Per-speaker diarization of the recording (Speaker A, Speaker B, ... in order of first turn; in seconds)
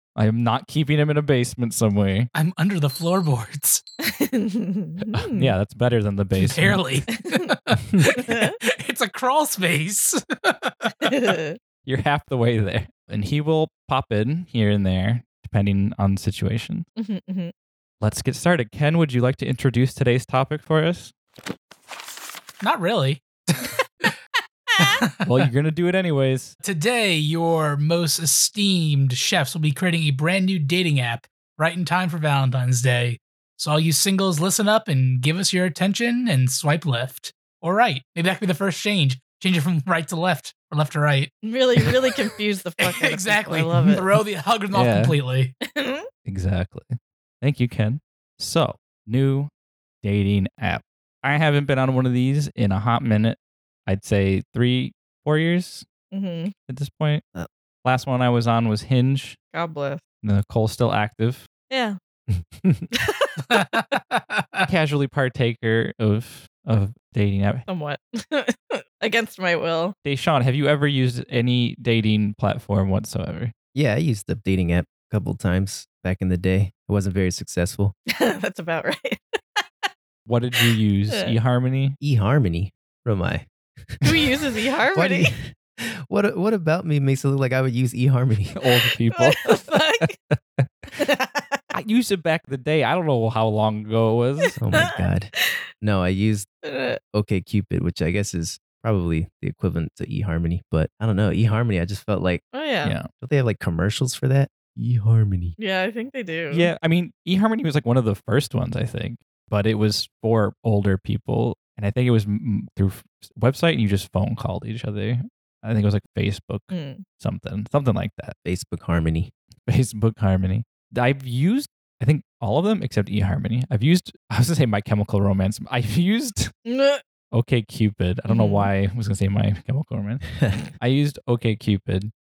Speaker A: 0.1-2.3, 5.1-6.8, 11.8-16.9, 18.0-21.1, 25.2-26.6, 44.7-45.2, 46.2-49.5, 50.0-55.9, 56.7-57.2, 57.8-59.4, 60.2-61.5, 64.7-67.6, 70.0-73.5, 80.2-82.0, 88.5-90.9, 91.7-94.6, 102.8-103.1, 106.5-118.3, 119.7-126.5, 127.3-132.1
Speaker B: 2.3-3.8, 6.4-11.3, 22.6-24.1, 24.8-25.5, 26.6-42.1, 42.8-45.5, 63.4-64.7
Speaker C: 4.0-5.5, 7.2-7.5, 8.0-8.5, 11.0-11.6, 17.0-17.5, 41.4-44.0, 45.6-46.1, 56.1-56.5, 59.5-60.0, 61.7-62.0, 62.9-63.6, 67.7-69.9, 78.1-79.6, 80.6-81.3, 84.0-85.3, 89.1-90.1, 91.0-91.6, 96.6-97.0, 102.5-102.9, 105.6-106.7, 116.7-117.0, 126.7-127.0, 128.3-128.7
Speaker D: 62.3-62.9, 73.7-77.9, 82.0-84.3, 84.9-88.5, 94.6-96.5, 97.1-102.4, 103.2-105.6, 118.4-119.3